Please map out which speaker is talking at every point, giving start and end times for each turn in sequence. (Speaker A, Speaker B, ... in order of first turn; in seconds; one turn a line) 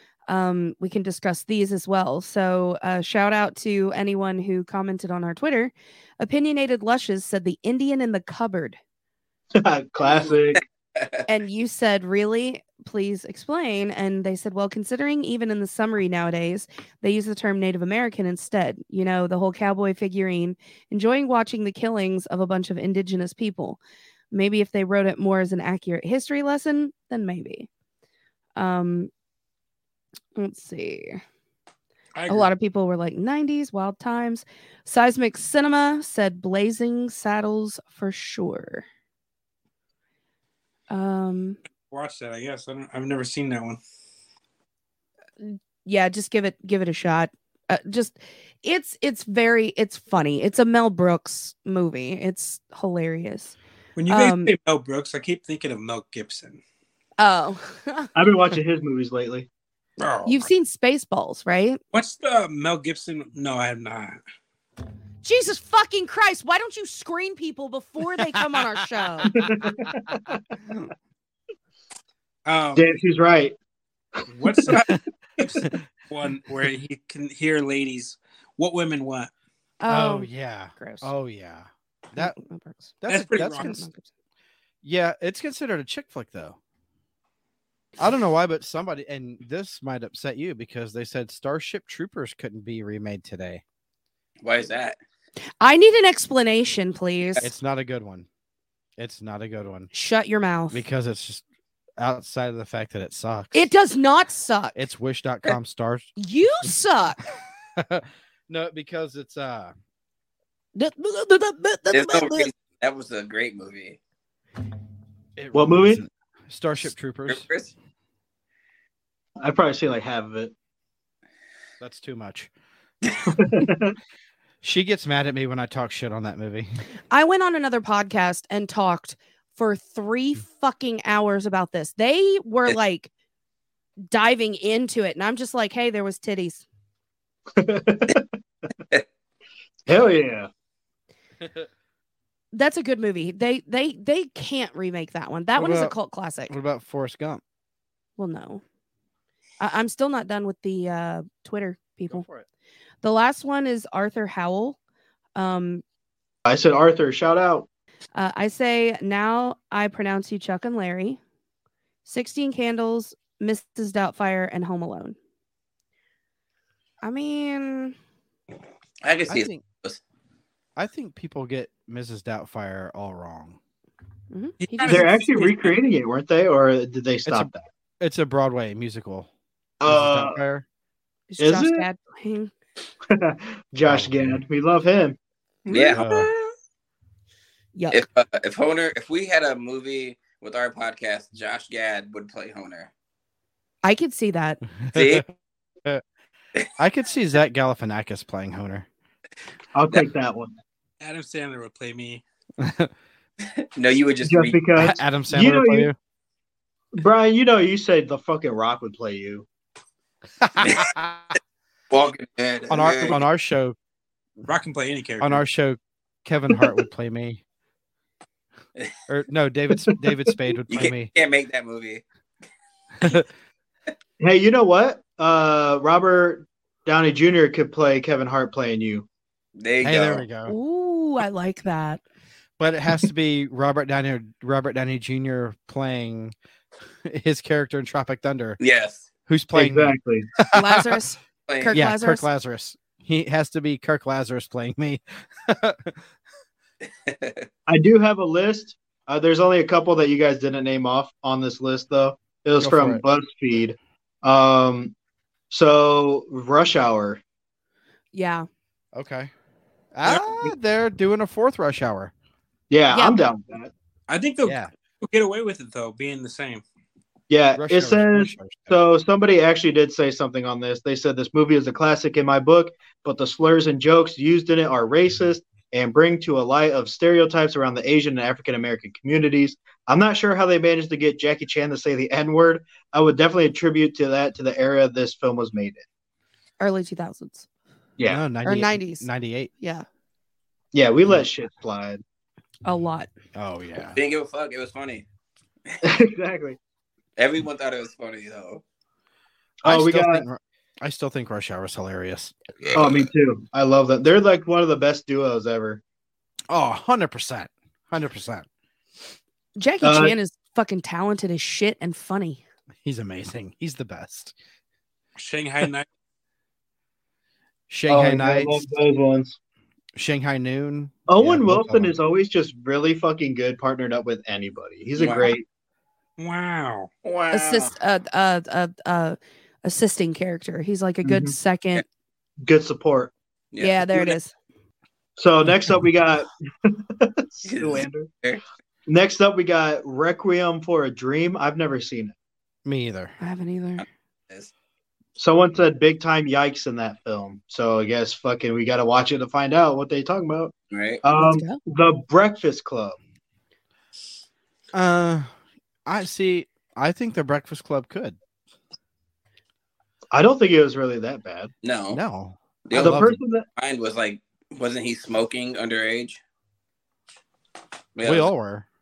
Speaker A: 0.3-8.8
Speaker B: 9.5-10.6
Speaker C: 10.6-11.2
Speaker A: 11.3-23.8
Speaker A: 24.3-27.7
Speaker A: 28.6-29.1
Speaker A: 30.4-31.2
Speaker D: 32.1-32.5
Speaker A: 32.3-38.8
Speaker A: 40.9-41.6
Speaker D: 41.9-43.8
Speaker A: 45.4-53.5
Speaker D: 54.0-56.6
Speaker A: 54.1-54.5
Speaker A: 57.2-58.1
Speaker B: 58.1-59.5
Speaker D: 60.0-60.4
Speaker A: 60.2-61.8
Speaker D: 61.9-64.2
Speaker A: 65.2-69.3
Speaker E: 68.3-68.6
Speaker B: 69.3-70.4
Speaker D: 72.4-72.9
Speaker B: 72.7-73.5
Speaker B: 74.2-74.7
Speaker D: 74.3-79.3
Speaker A: 79.8-81.1
Speaker E: 79.9-82.3
Speaker A: 82.1-84.1
Speaker E: 83.0-83.9
Speaker D: 83.1-83.8
Speaker E: 84.8-86.6
Speaker E: 88.0-93.6
Speaker C: 94.4-95.0
Speaker A: 95.6-97.4
Speaker E: 97.4-98.3
Speaker E: 99.0-99.9
Speaker A: 99.9-100.8
Speaker E: 100.7-101.4
Speaker E: 102.0-103.7
Speaker A: 103.5-104.8
Speaker E: 104.7-106.1
Speaker A: 106.2-107.2
Speaker E: 107.8-109.7
Speaker A: 110.8-112.5
Speaker C: 111.9-114.0
Speaker E: 115.4-117.5
Speaker B: 115.5-116.0
Speaker C: 117.3-117.7
Speaker B: 119.4-120.5
Speaker E: 121.8-122.5
Speaker B: 123.3-124.0
Speaker E: 124.6-126.8
Speaker A: 127.1-133.1
Speaker A: 134.1-136.6
Speaker B: 137.6-138.3
Speaker B: 139.8-140.5
Speaker E: 141.4-141.7
Speaker A: 142.5-146.5
Speaker E: 145.6-145.9
Speaker E: 146.5-147.4
Speaker A: 148.2-148.6
Speaker A: 149.6-152.3
Speaker E: 152.1-152.4
Speaker A: 153.0-154.8
Speaker A: 155.3-155.8
Speaker B: 156.4-157.7
Speaker A: 158.1-161.2
Speaker A: 162.1-165.2
Speaker A: 167.0-167.9
Speaker C: 169.0-170.0
Speaker E: 169.3-169.6
Speaker E: 170.8-173.6
Speaker A: 174.3-175.2
Speaker D: 174.6-175.8
Speaker B: 174.9-177.7
Speaker E: 177.2-179.3
Speaker B: 179.8-180.4
Speaker E: 179.8-180.6
Speaker A: 181.3-182.5
Speaker B: 181.4-181.8
Speaker B: 183.1-185.2
Speaker E: 183.8-184.4
Speaker C: 185.7-186.1
Speaker D: 185.7-186.2
Speaker E: 185.9-186.3
Speaker A: 187.7-188.0
Speaker C: 187.9-192.9
Speaker A: 193.8-194.6
Speaker E: 194.8-195.2
Speaker C: 194.9-195.2
Speaker E: 196.8-198.8
Speaker B: 199.7-200.5
Speaker D: 201.0-202.2
Speaker E: 202.6-202.9
Speaker C: 203.6-204.6
Speaker B: 204.2-205.9
Speaker E: 204.8-205.9
Speaker B: 206.9-209.4
Speaker E: 210.4-211.3
Speaker C: 210.6-210.9
Speaker C: 211.9-213.2
Speaker E: 212.7-213.8
Speaker D: 214.4-215.4
Speaker E: 215.2-217.4
Speaker E: 219.1-221.1
Speaker C: 220.7-222.0
Speaker E: 223.0-223.3
Speaker B: 224.2-229.1
Speaker C: 229.6-230.2
Speaker E: 229.8-230.5
Speaker A: 230.5-232.0
Speaker E: 232.6-236.3
Speaker E: 237.0-238.6
Speaker C: 238.6-239.1
Speaker E: 239.3-240.9
Speaker B: 239.5-240.3
Speaker A: 240.5-242.2
Speaker C: 241.5-241.8
Speaker E: 241.7-246.0
Speaker C: 247.1-247.5
Speaker B: 247.7-254.9
Speaker E: 252.6-253.0
Speaker B: 255.5-257.2
Speaker A: 258.1-258.5
Speaker E: 258.9-259.3
Speaker E: 259.9-262.1
Speaker D: 260.1-260.4
Speaker B: 262.7-263.7
Speaker A: 262.9-263.2
Speaker D: 264.1-266.6
Speaker E: 264.4-264.7
Speaker B: 267.3-285.8
Speaker E: 267.6-268.8
Speaker A: 286.6-287.5
Speaker E: 288.0-289.5
Speaker A: 288.4-289.1
Speaker A: 289.6-289.9
Speaker B: 290.7-292.0
Speaker A: 292.6-293.1
Speaker E: 293.3-294.0
Speaker C: 293.9-295.0
Speaker B: 295.8-296.6
Speaker C: 297.2-298.6
Speaker B: 299.6-300.2
Speaker E: 299.6-302.3
Speaker C: 302.7-303.1
Speaker B: 302.7-305.8
Speaker E: 306.5-308.5
Speaker A: 309.6-312.4
Speaker B: 309.8-310.1
Speaker E: 312.8-314.3
Speaker D: 315.1-315.9
Speaker E: 317.7-318.6
Speaker B: 317.9-319.4
Speaker E: 319.9-321.9
Speaker B: 321.1-325.4
Speaker C: 324.9-325.3
Speaker D: 326.2-326.9
Speaker C: 327.0-327.7
Speaker A: 327.3-331.8
Speaker B: 331.0-331.3
Speaker B: 332.4-333.1
Speaker C: 333.5-334.2
Speaker A: 333.6-334.3
Speaker B: 335.2-338.1
Speaker C: 337.4-338.4
Speaker B: 338.9-342.1
Speaker E: 342.6-343.1
Speaker A: 343.2-343.9
Speaker C: 343.8-344.5
Speaker B: 345.2-352.9
Speaker C: 350.7-351.0
Speaker A: 351.1-351.6
Speaker E: 354.7-355.3
Speaker E: 355.9-358.2
Speaker B: 360.1-361.5
Speaker C: 361.6-362.0
Speaker E: 361.9-363.2
Speaker C: 362.7-366.2
Speaker B: 362.7-363.4
Speaker C: 367.9-368.3
Speaker E: 368.0-368.6